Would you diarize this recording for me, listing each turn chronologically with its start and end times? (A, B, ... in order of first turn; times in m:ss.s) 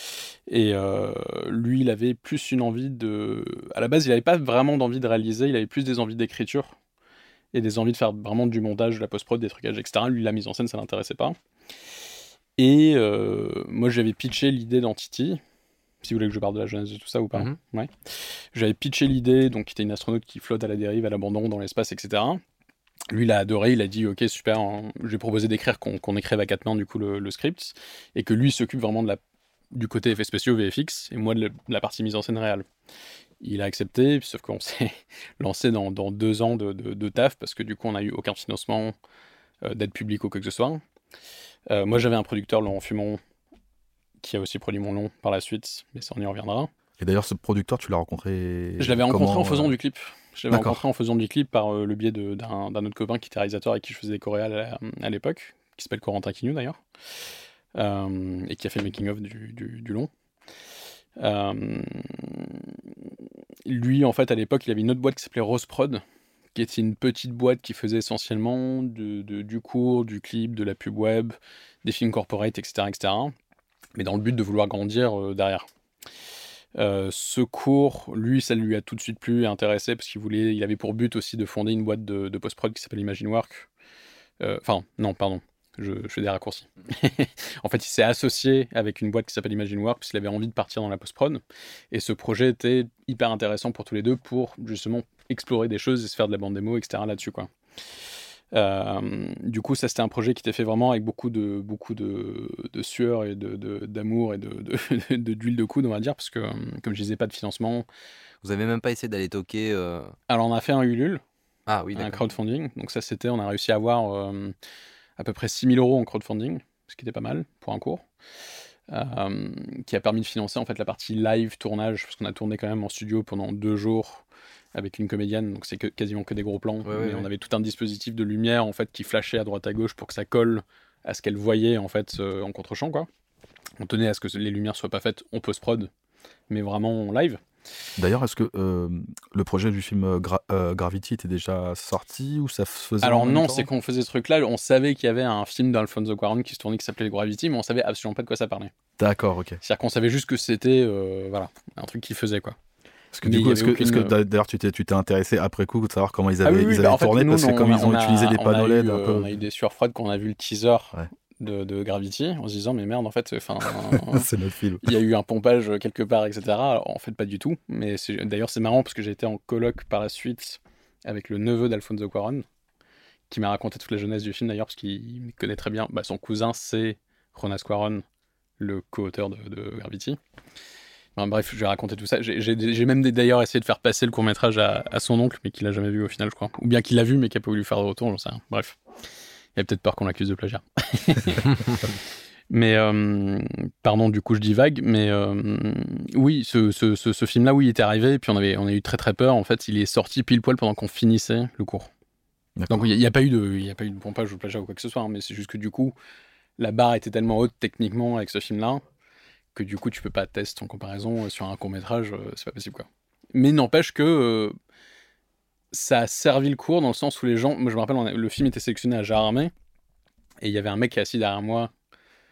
0:00.5-0:06.8 A
0:07.5-0:11.4 A
0:12.6-0:15.4 A
0:16.0-0:22.4 A
0:23.1-0:29.2 A
0:29.7-0:32.6 A
0:33.4-0:38.9 A
0:39.6-0:40.8 A
0:41.7-0:43.2 A
0:44.2-0:46.7 A
0:47.0-0:49.8 B
0:48.8-0:56.8 A
0:50.5-0:50.8 B
0:57.8-1:00.1 A
1:01.2-1:02.7 A
1:03.6-1:06.0 A
1:06.6-1:13.3 A
1:14.0-1:15.7 A
1:16.8-1:23.7 A
1:24.4-1:37.5 A
1:38.5-1:47.9 A
1:48.4-1:50.1 C
1:50.3-1:51.2 A
1:51.7-1:52.3 C
1:51.9-1:54.5 A
1:55.2-1:58.0 A
1:58.9-2:13.1 A
2:06.8-2:07.3 C
2:13.8-2:15.9 A
2:16.5-2:17.4 A
2:18.0-2:23.7 B
2:23.0-2:28.7 A
2:29.0-2:29.6 B
2:29.6-2:32.6 A
2:33.1-2:39.4 B
2:33.2-2:34.1 A
2:36.4-2:44.3 A
2:43.8-2:44.9 B
2:44.8-2:52.4 A
2:53.3-2:58.0 A
2:58.6-3:00.2 A
3:01.2-3:08.8 A
3:09.5-3:11.9 A
3:12.5-3:21.9 A
3:22.6-3:22.9 B
3:22.7-3:25.9 A
3:26.6-3:28.8 A
3:29.5-3:34.5 A
3:35.7-3:39.5 A
3:40.4-3:41.7 A